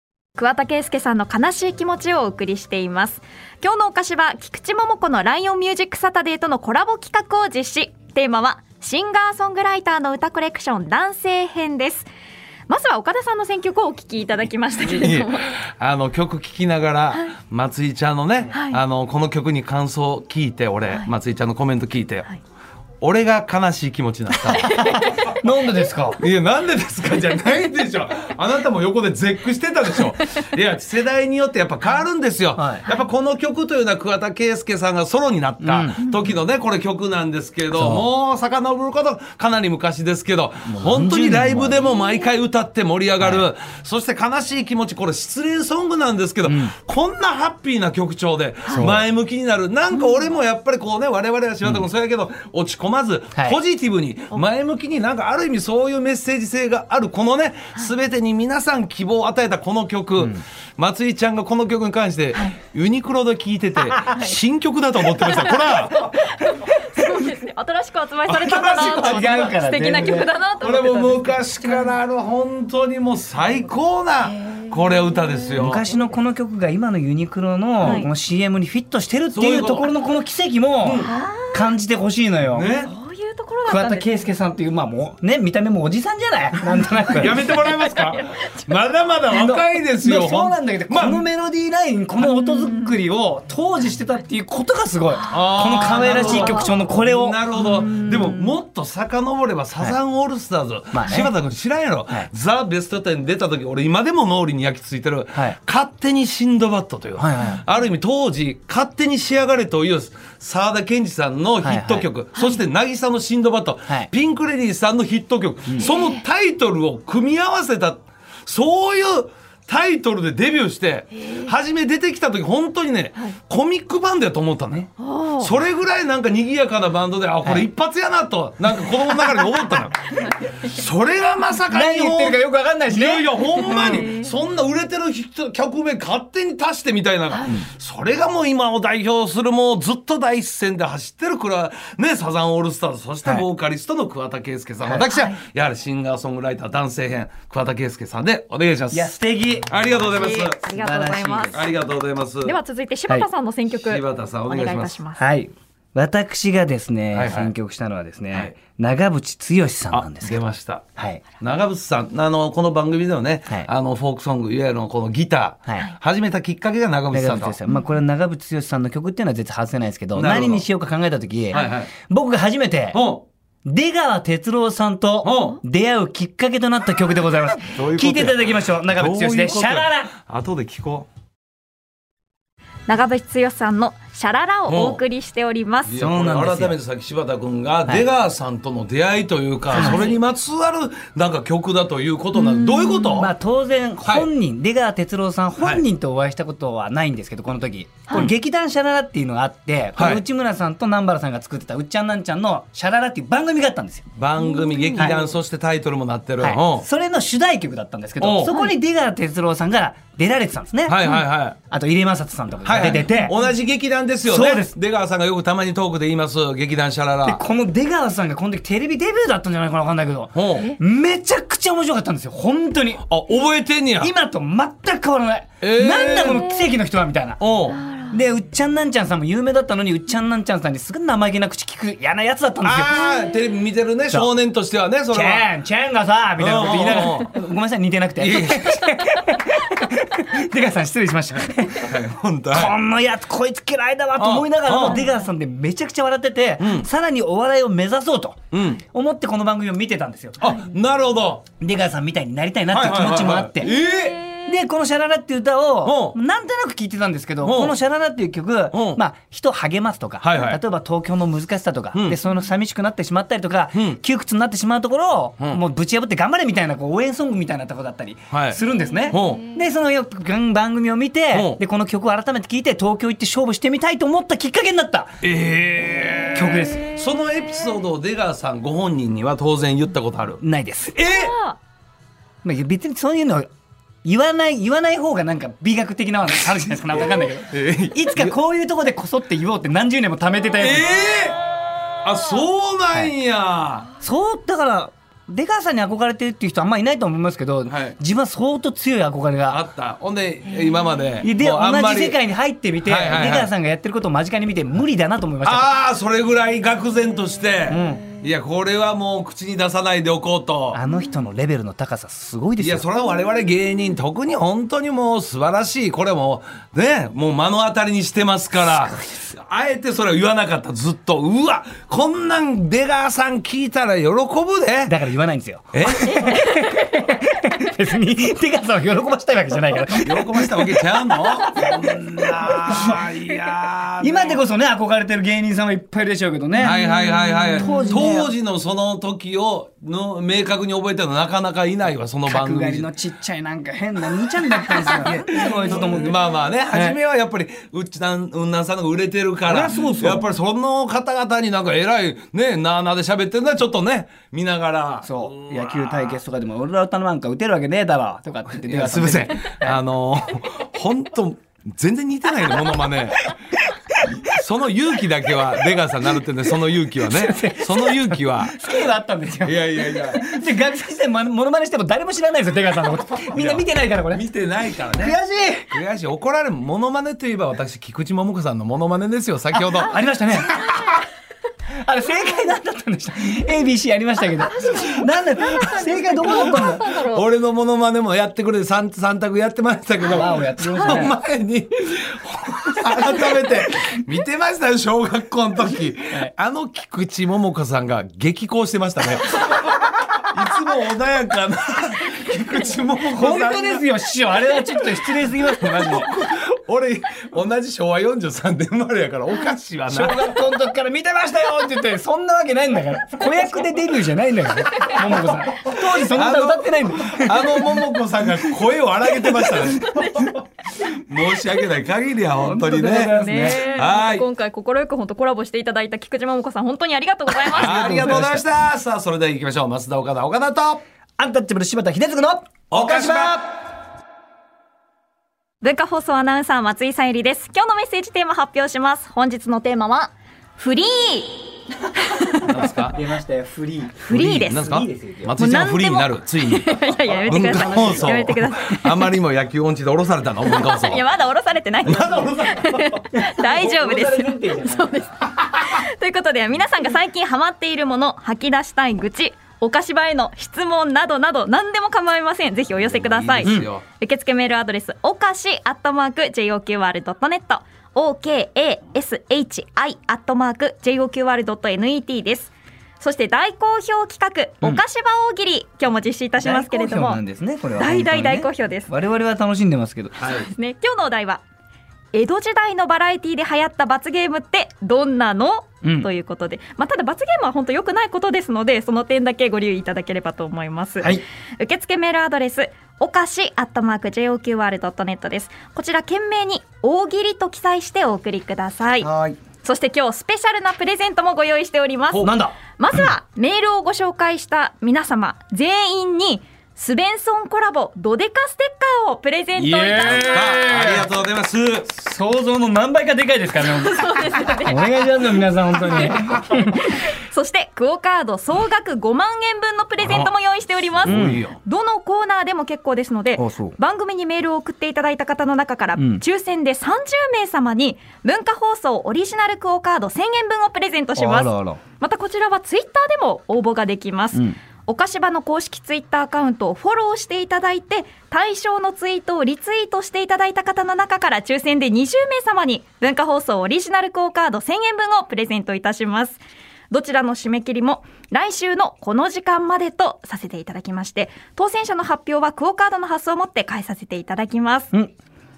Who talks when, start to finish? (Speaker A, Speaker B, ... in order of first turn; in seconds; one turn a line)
Speaker A: 0.4-12.1
Speaker A: 12.7-15.5
Speaker B: 14.9-22.3
Speaker A: 18.5-18.8
Speaker B: 23.0-25.2
Speaker C: 24.6-26.2
Speaker A: 24.7-25.1
Speaker B: 26.2-66.1
Speaker C: 32.6-32.8
Speaker C: 35.6-36.0
Speaker C: 37.7-38.0
Speaker C: 40.6-41.9
Speaker C: 43.2-43.5
Speaker C: 46.4-46.7
Speaker C: 48.7-49.0
Speaker A: 50.0-50.2
Speaker A: 65.2-72.0
Speaker B: 68.3-69.5
Speaker C: 68.7-70.3
Speaker B: 70.6-75.8
Speaker A: 74.2-75.4
Speaker C: 75.6-82.7
Speaker A: 77.8-78.1
Speaker B: 79.3-79.9
Speaker B: 80.8-81.1
Speaker A: 81.0-81.8
Speaker B: 82.5-82.9
Speaker A: 82.8-84.3
Speaker C: 83.6-87.6
Speaker B: 87.1-91.2
Speaker A: 87.4-88.5
Speaker C: 89.3-97.4
Speaker A: 92.2-92.9
Speaker A: 95.2-96.8
Speaker B: 95.3-149.1
Speaker A: 97.5-98.5
Speaker C: 100.9-101.3
Speaker C: 107.2-107.6
Speaker C: 111.6-112.1
Speaker A: 112.3-112.6
Speaker A: 115.8-116.2
Speaker A: 121.2-121.5
Speaker A: 125.0-125.5
Speaker C: 131.7-134.1
Speaker A: 133.6-134.3
Speaker A: 145.1-145.4
Speaker C: 148.9-150.0
Speaker B: 149.7-150.6
Speaker A: 150.1-151.7
Speaker C: 150.6-151.6
Speaker B: 151.5-152.6
Speaker A: 152.4-155.2
Speaker B: 153.8-155.0
Speaker C: 155.2-160.4
Speaker B: 157.1-157.5
Speaker B: 159.9-160.8
Speaker C: 161.0-161.2
Speaker B: 161.4-167.6
Speaker C: 167.1-173.0
Speaker B: 170.1-170.7
Speaker B: 171.5-171.9
Speaker B: 172.9-173.2
Speaker C: 173.6-180.1
Speaker B: 175.2-175.6
Speaker B: 177.7-181.1
Speaker A: 182.9-186.0
Speaker B: 184.7-185.0
Speaker B: 185.8-193.3
Speaker C: 186.0-186.8
Speaker A: 189.7-190.2
Speaker C: 189.7-190.1
Speaker A: 192.3-193.3
Speaker C: 193.1-204.1
Speaker B: 194.0-194.3
Speaker B: 195.6-195.8
Speaker B: 199.9-200.2
Speaker B: 204.2-206.8
Speaker A: 204.4-205.1
Speaker C: 204.9-205.3
Speaker C: 206.4-211.1
Speaker B: 208.2-208.5
Speaker A: 208.4-208.7
Speaker B: 210.9-211.6
Speaker C: 211.7-213.4
Speaker B: 212.6-217.4
Speaker C: 214.2-214.8
Speaker C: 217.2-223.0
Speaker B: 220.3-220.7
Speaker B: 223.1-224.1
Speaker C: 224.0-227.4
Speaker B: 225.6-226.5
Speaker A: 226.3-226.6
Speaker B: 227.4-227.8
Speaker A: 227.7-228.2
Speaker C: 228.1-233.1
Speaker B: 232.6-235.5
Speaker C: 235.1-242.0
Speaker B: 236.4-237.3
Speaker B: 238.2-238.9
Speaker B: 241.8-242.7
Speaker C: 242.5-250.4
Speaker B: 244.2-245.1
Speaker A: 244.8-245.3
Speaker B: 246.6-246.9
Speaker B: 248.5-248.8
Speaker B: 250.4-251.4
Speaker C: 251.6-253.7
Speaker B: 252.7-254.2
Speaker A: 253.6-254.5
Speaker C: 254.4-275.2
Speaker B: 255.8-256.2
Speaker B: 257.4-257.8
Speaker B: 258.7-259.0
Speaker B: 260.2-260.6
Speaker B: 261.9-262.2
Speaker B: 263.7-264.0
Speaker B: 268.3-269.5
Speaker B: 271.3-271.6
Speaker B: 275.2-281.3
Speaker C: 276.3-276.8
Speaker C: 280.4-280.9
Speaker A: 281.0-281.6
Speaker C: 282.4-283.5
Speaker C: 284.0-290.9
Speaker B: 286.9-288.4
Speaker B: 290.6-291.4
Speaker B: 292.0-293.9
Speaker C: 294.0-299.6
Speaker B: 297.6-298.0
Speaker B: 299.5-302.2
Speaker C: 301.2-305.8
Speaker B: 302.8-303.5
Speaker B: 305.4-310.8
Speaker C: 307.7-308.0
Speaker C: 310.7-312.8
Speaker B: 312.6-325.0
Speaker C: 324.9-331.0
Speaker B: 325.7-326.4
Speaker B: 329.9-334.4
Speaker C: 332.7-333.0
Speaker C: 334.0-336.9
Speaker B: 336.6-342.9
Speaker A: 336.7-337.9
Speaker C: 337.5-338.3
Speaker C: 342.2-346.1
Speaker B: 344.7-356.2
Speaker A: 345.4-346.1
Speaker C: 346.7-347.0
Speaker C: 349.4-350.2
Speaker C: 355.0-359.8
Speaker B: 358.5-363.3
Speaker B: 364.0-368.6
Speaker C: 367.0-374.2
Speaker B: 369.4-370.3
Speaker B: 373.3-380.0
Speaker C: 374.9-375.7
Speaker C: 379.5-380.7
Speaker A: 380.6-381.0
Speaker C: 381.8-386.9
Speaker A: 384.4-387.2
Speaker B: 386.2-403.8
Speaker C: 390.1-391.2
Speaker A: 390.7-391.1
Speaker C: 403.1-406.1
Speaker B: 405.6-410.4
Speaker C: 409.9-417.8
Speaker B: 416.1-420.4
Speaker B: 420.9-424.2
Speaker C: 422.4-423.7
Speaker A: 422.9-428.1
Speaker C: 427.5-428.4
Speaker B: 427.5-430.8
Speaker C: 431.2-433.4
Speaker B: 432.7-433.5
Speaker A: 435.6-442.4
Speaker B: 442.4-443.0
Speaker C: 442.5-445.4
Speaker A: 444.0-444.7
Speaker B: 444.1-451.0
Speaker A: 445.4-449.1
Speaker C: 447.3-448.2
Speaker A: 450.4-477.2
Speaker B: 451.8-453.0
Speaker C: 451.9-452.3
Speaker C: 453.1-455.1
Speaker B: 462.8-463.8
Speaker C: 476.4-480.2
Speaker A: 477.8-478.9
Speaker B: 480.2-480.5
Speaker A: 480.2-481.4
Speaker A: 482.1-499.1
Speaker C: 485.8-486.1
Speaker C: 499.0-499.4
Speaker A: 499.6-510.6
Speaker C: 502.2-503.1
Speaker C: 509.6-511.1
Speaker B: 509.9-511.9
Speaker C: 511.9-516.9
Speaker A: 513.8-514.9
Speaker A: 517.0-554.9
Speaker B: 520.0-520.3
Speaker B: 520.9-521.6
Speaker C: 521.0-521.4
Speaker C: 523.4-523.8
Speaker C: 526.0-526.2
Speaker C: 531.2-531.8